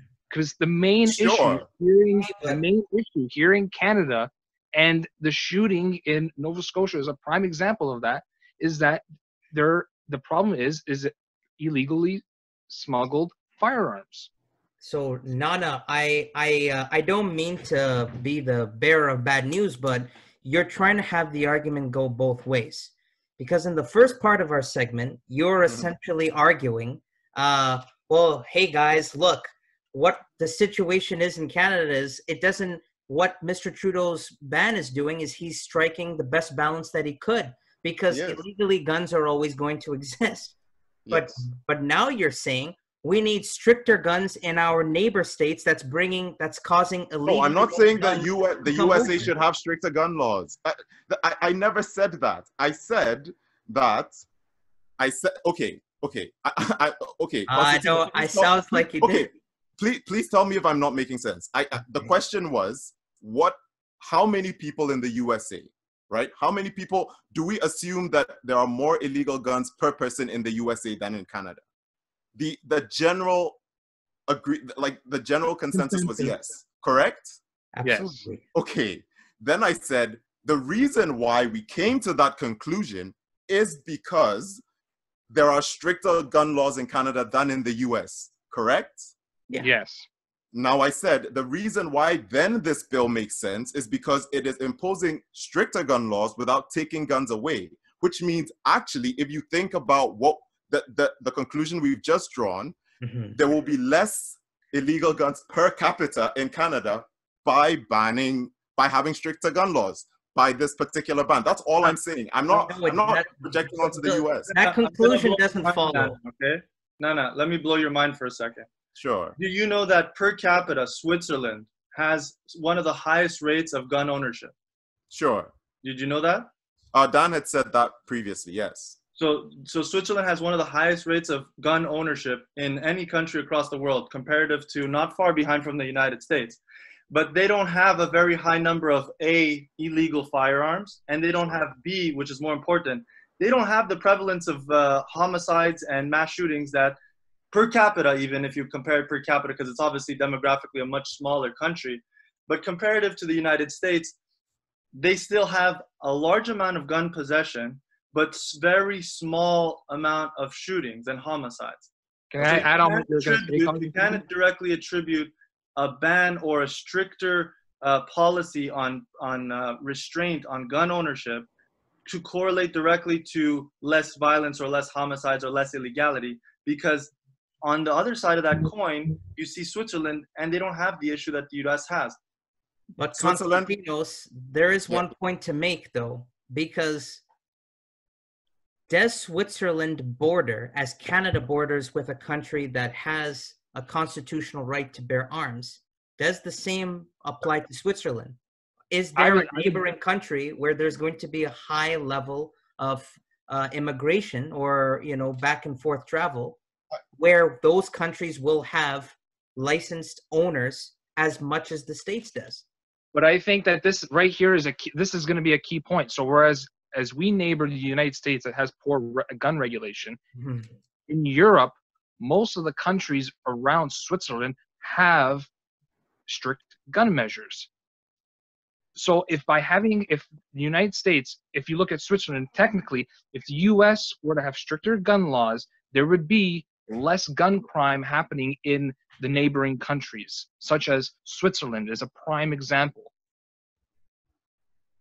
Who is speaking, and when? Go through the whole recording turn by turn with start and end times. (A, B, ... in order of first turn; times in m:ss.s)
0:00.3-0:14.3 A
0:01.0-0:01.6 B
0:02.2-0:02.6 C
0:14.8-0:40.5 C
0:38.1-0:38.4 B
0:41.0-0:41.4 B
0:41.1-0:49.3 C
0:47.2-0:54.2 B
0:55.0-1:11.6 B
0:57.5-0:59.3 C
1:12.4-1:13.6 B
1:14.3-1:17.4 B
1:15.7-1:16.3 C
1:17.7-1:18.4 C
1:17.8-1:18.2 A
1:18.5-1:24.6 B
1:25.3-1:29.1 B
1:29.6-1:30.1 A
1:30.5-1:42.8 B
1:43.0-1:43.4 C
1:43.4-1:54.5 B
1:52.5-1:56.2 C
1:54.5-1:58.7 D
1:59.0-1:59.4 B
1:59.4-2:04.5 D
2:05.1-2:05.5 B
2:05.8-2:06.5 D
2:06.9-2:09.0 B
2:09.2-2:27.0 D
2:27.5-2:34.2 D
2:34.9-2:51.5 D
2:42.3-2:44.2 A
2:52.0-3:02.2 D
3:03.0-3:07.2 C
3:03.1-3:03.7 B
3:08.9-3:18.4 C
3:18.9-3:26.6 C
3:19.2-3:19.8 A
3:27.1-3:32.6 C
3:33.1-3:40.2 A
3:40.4-3:40.7 C
3:41.1-3:45.5 A
3:46.3-3:47.7 A
3:48.9-4:03.1 A